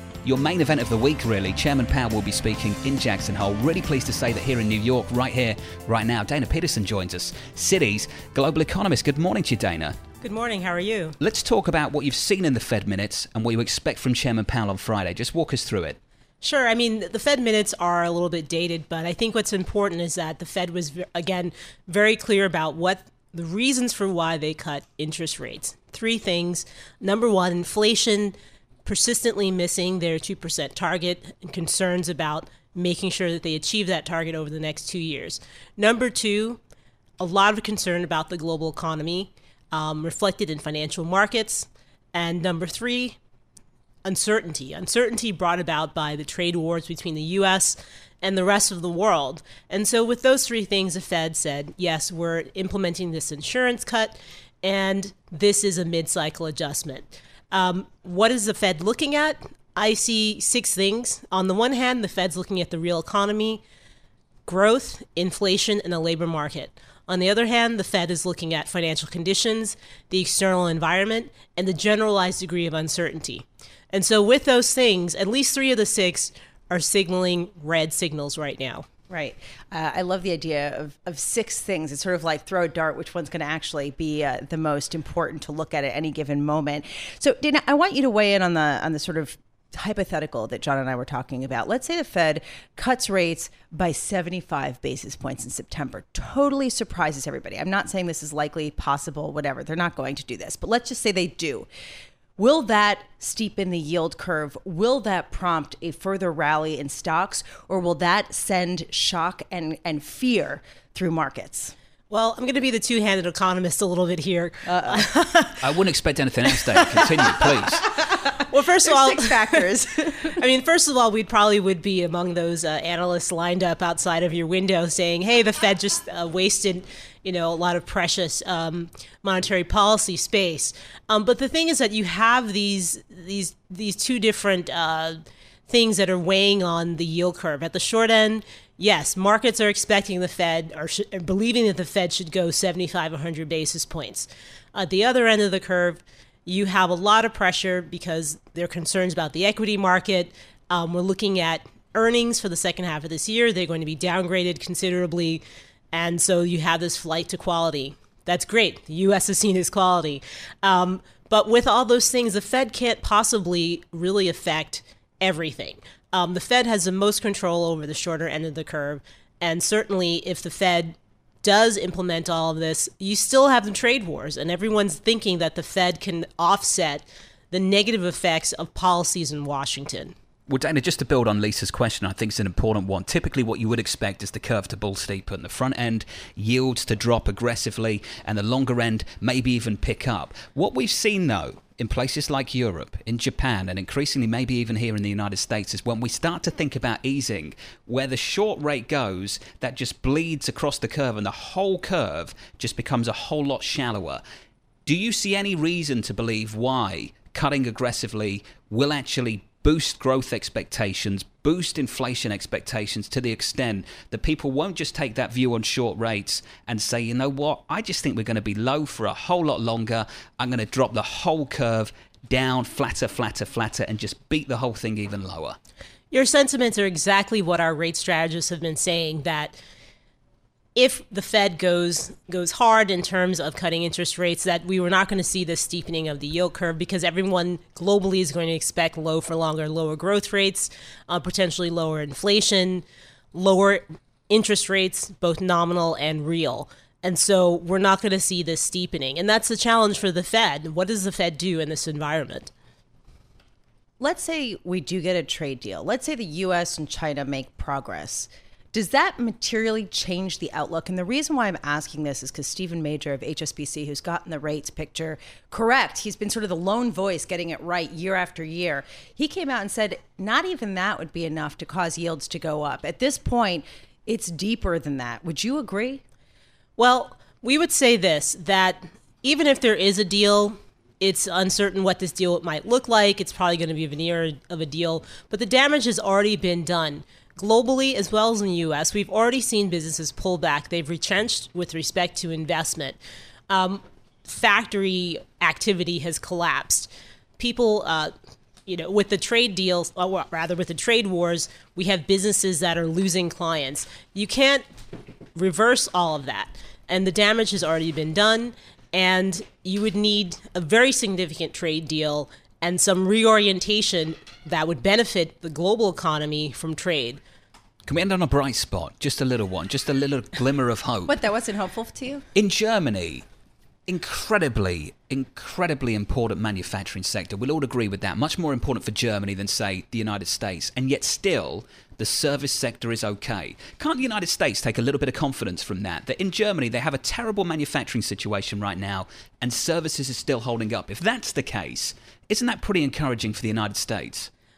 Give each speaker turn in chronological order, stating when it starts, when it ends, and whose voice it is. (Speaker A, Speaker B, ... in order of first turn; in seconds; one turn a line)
Speaker A: 0.2-9.9
Speaker B: 10.2-11.2
Speaker A: 11.2-16.0
Speaker B: 16.4-36.6
Speaker B: 37.2-43.2
Speaker B: 44.0-63.6
Speaker B: 64.5-78.8
Speaker C: 79.1-101.7
Speaker C: 102.4-111.7
Speaker B: 112.1-115.6
Speaker C: 114.7-115.3
Speaker A: 115.6-117.8
Speaker C: 116.8-120.4
Speaker B: 116.8-117.1
Speaker B: 118.5-119.7
Speaker B: 120.3-180.1
Speaker A: 180.5-204.2
Speaker A: 204.8-225.6
Speaker B: 226.1-229.6
Speaker B: 230.7-252.5
Speaker C: 254.0-276.0
Speaker B: 276.8-293.0
Speaker B: 293.5-298.1
Speaker B: 298.6-304.6
Speaker B: 305.3-317.2
Speaker A: 317.9-321.1
Speaker C: 321.1-322.2
Speaker A: 322.3-323.2
Speaker A: 323.9-344.3